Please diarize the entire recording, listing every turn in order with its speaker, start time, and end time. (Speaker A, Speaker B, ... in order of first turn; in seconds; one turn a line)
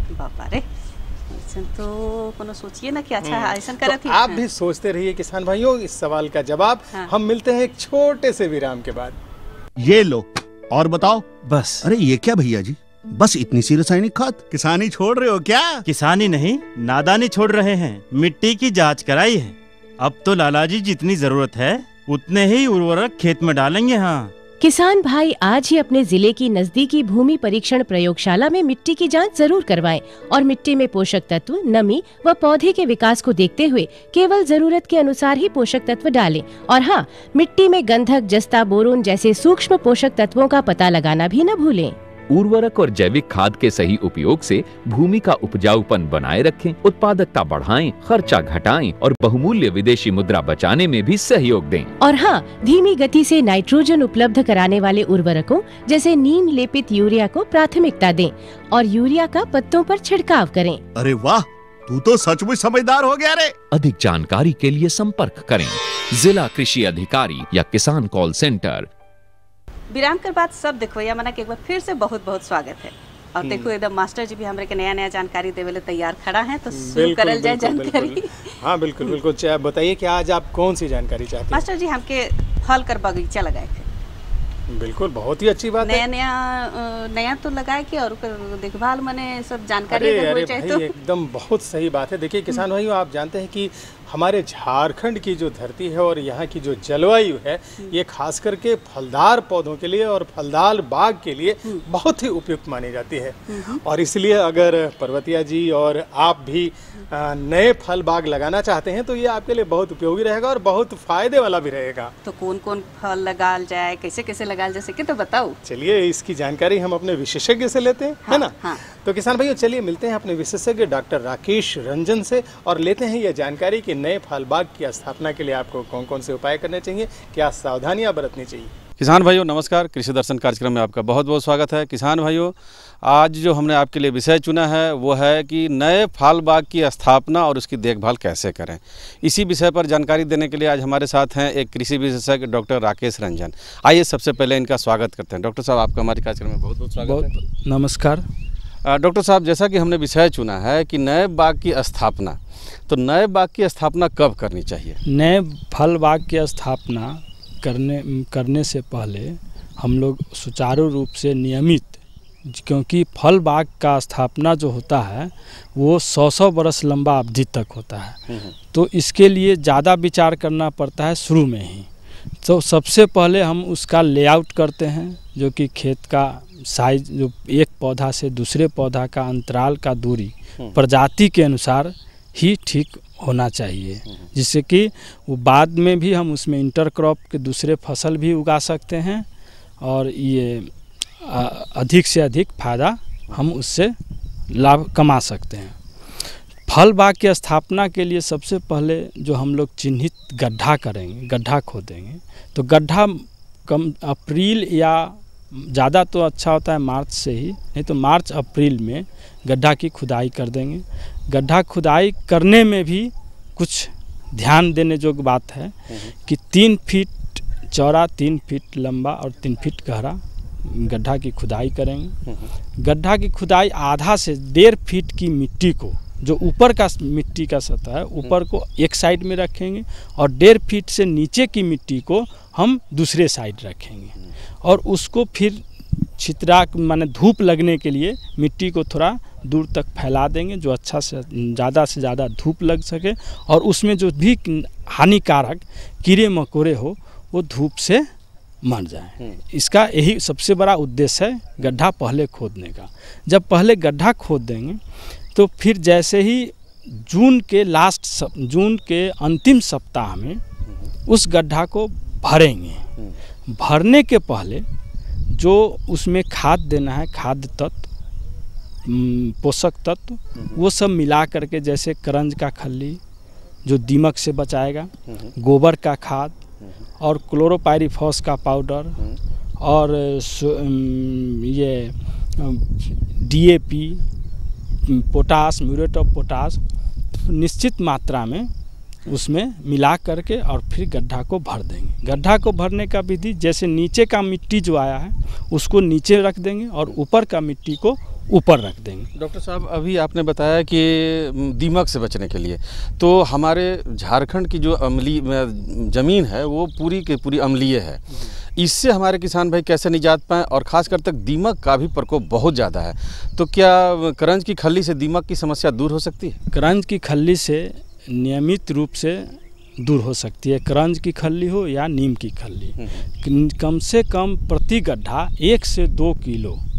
Speaker A: 0.1-0.7
Speaker A: 1.3-4.5
Speaker B: 3.2-9.2
Speaker C: 9.8-15.8
Speaker D: 15.8-24.3
Speaker E: 24.6-42.0
Speaker F: 42.3-51.9
Speaker E: 52.0-60.8
Speaker C: 61.0-63.6
Speaker F: 63.7-68.9
Speaker A: 69.9-78.5
Speaker B: 73.4-73.7
Speaker B: 76.7-81.7
Speaker A: 81.5-83.9
Speaker B: 84.7-86.1
Speaker A: 85.8-91.0
Speaker B: 89.9-112.1
Speaker A: 103.5-103.8
Speaker A: 112.2-115.6
Speaker B: 115.7-128.7
Speaker A: 118.3-118.8
Speaker G: 129.0-147.3
Speaker H: 147.0-148.3
Speaker G: 148.8-155.0
Speaker H: 155.1-168.2
Speaker G: 168.3-168.5
Speaker H: 168.7-171.9
Speaker H: 172.4-189.3
Speaker H: 189.8-193.9
Speaker H: 194.5-195.8
Speaker H: 196.7-222.2
Speaker H: 222.8-235.6
Speaker H: 236.2-248.1
Speaker H: 248.6-254.8
Speaker H: 255.3-260.4
Speaker H: 261.1-262.9
Speaker H: 263.5-264.6
Speaker H: 265.3-267.9
Speaker H: 268.9-273.0
Speaker H: 273.6-276.4
Speaker H: 277.0-279.0
Speaker H: 279.6-284.1
Speaker H: 284.9-286.6
Speaker H: 287.1-288.5
Speaker H: 289.1-299.1
Speaker G: 299.2-316.4
Speaker H: 316.5-326.6
Speaker G: 322.8-323.1